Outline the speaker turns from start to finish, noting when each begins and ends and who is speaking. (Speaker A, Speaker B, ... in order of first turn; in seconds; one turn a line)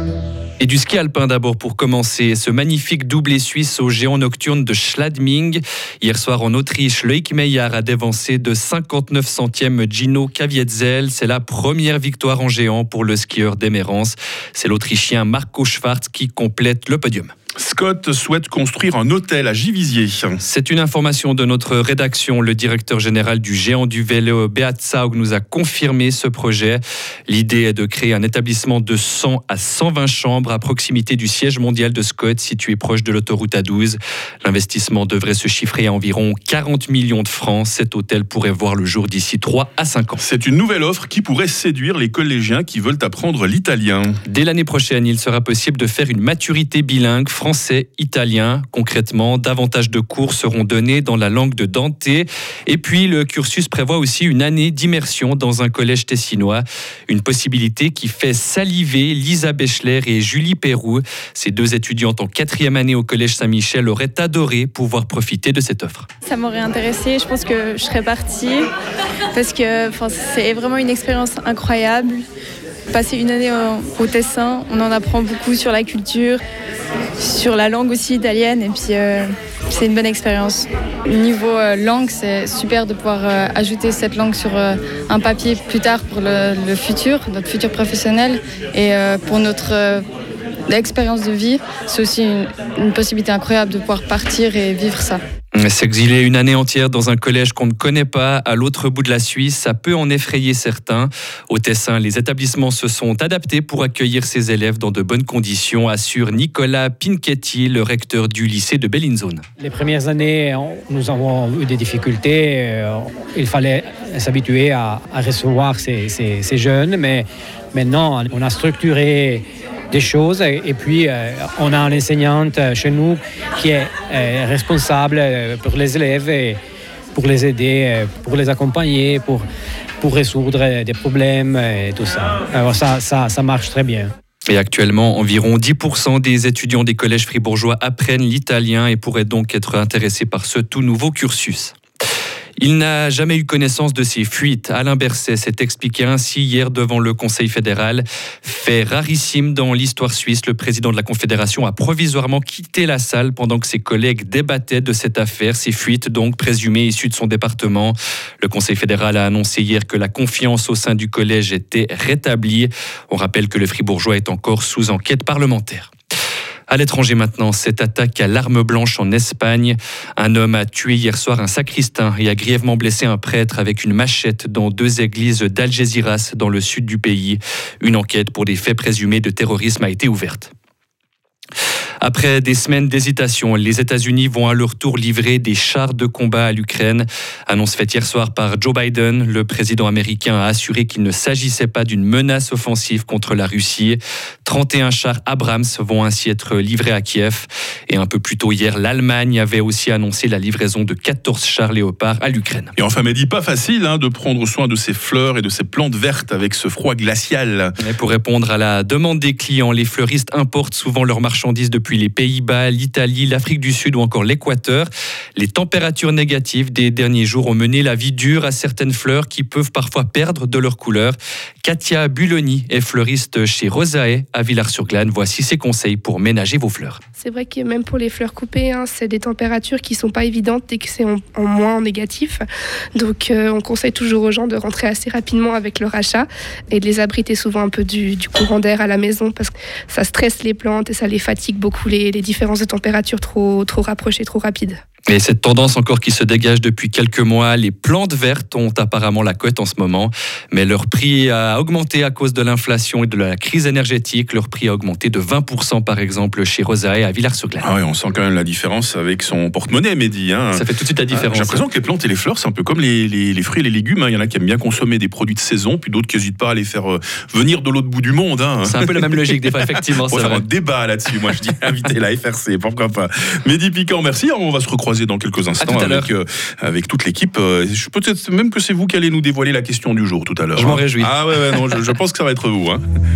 Speaker A: 0.6-17.3
Speaker B: 17.6-20.4
Speaker A: 20.4-40.2
Speaker B: 40.2-44.2
Speaker A: 44.3-66.1
Speaker C: 66.2-68.7
Speaker C: 69.3-72.2
Speaker C: 72.9-76.4
Speaker C: 77.2-80.7
Speaker D: 81.1-90.0
Speaker D: 90.7-95.2
Speaker A: 95.5-109.4
Speaker E: 109.6-126.6
Speaker E: 127.1-129.5
Speaker E: 130.0-134.1
Speaker A: 134.5-141.8
Speaker A: 142.6-165.9
Speaker A: 166.7-180.5
Speaker A: 182.0-202.7
Speaker B: 202.8-207.7
Speaker A: 207.8-227.0
Speaker F: 227.2-232.4
Speaker F: 232.9-244.8
Speaker A: 245.1-257.7
Speaker B: 257.6-282.8
Speaker A: 260.5-261.6
Speaker A: 268.6-270.4
Speaker A: 275.6-276.1
Speaker A: 280.6-281.1